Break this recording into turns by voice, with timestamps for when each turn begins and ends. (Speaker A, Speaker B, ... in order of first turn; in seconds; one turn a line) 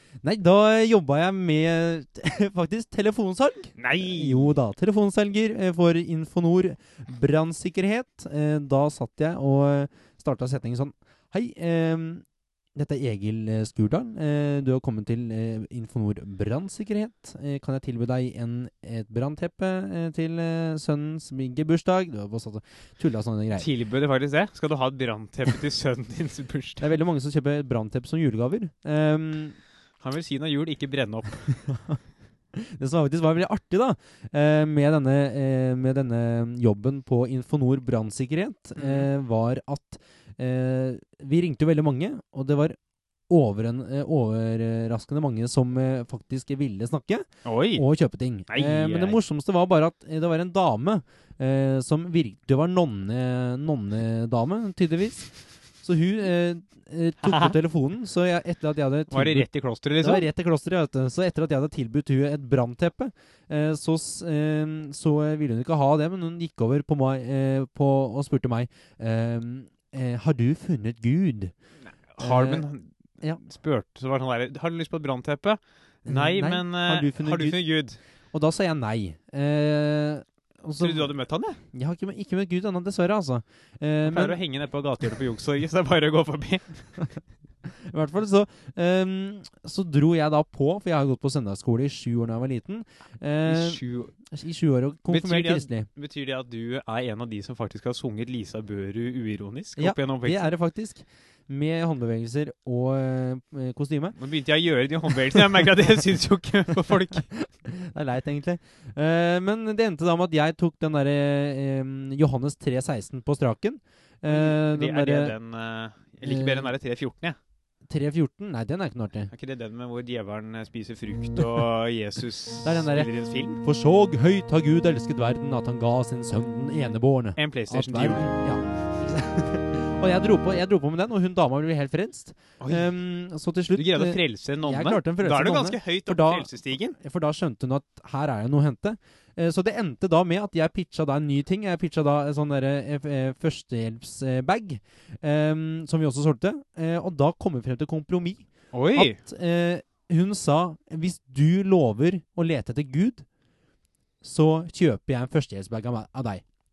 Speaker A: 0.2-23.7
Speaker B: 3.8-4.5
Speaker B: 23.6-26.9
Speaker A: 26.8-29.6
Speaker B: 30.0-31.6
Speaker A: 31.6-32.0
Speaker A: 32.5-42.8
Speaker B: 38.8-39.1
Speaker A: 43.3-59.5
Speaker B: 47.4-47.8
Speaker B: 48.5-49.2
Speaker B: 57.2-57.5
Speaker B: 59.1-60.3
Speaker A: 60.0-71.5
Speaker B: 72.1-78.0
Speaker A: 72.2-72.7
Speaker A: 76.0-77.6
Speaker A: 78.3-81.1
Speaker B: 80.8-81.6
Speaker A: 81.7-84.4
Speaker B: 84.0-86.9
Speaker A: 87.8-95.9
Speaker B: 93.5-94.1
Speaker B: 95.1-100.5
Speaker A: 99.8-104.2
Speaker B: 104.2-107.3
Speaker A: 107.2-115.3
Speaker B: 114.3-117.4
Speaker A: 116.2-116.7
Speaker A: 117.8-119.3
Speaker B: 119.3-123.6
Speaker A: 122.6-153.2
Speaker B: 127.4-128.3
Speaker B: 132.6-132.9
Speaker B: 133.7-137.0
Speaker B: 148.7-149.2
Speaker A: 154.2-156.4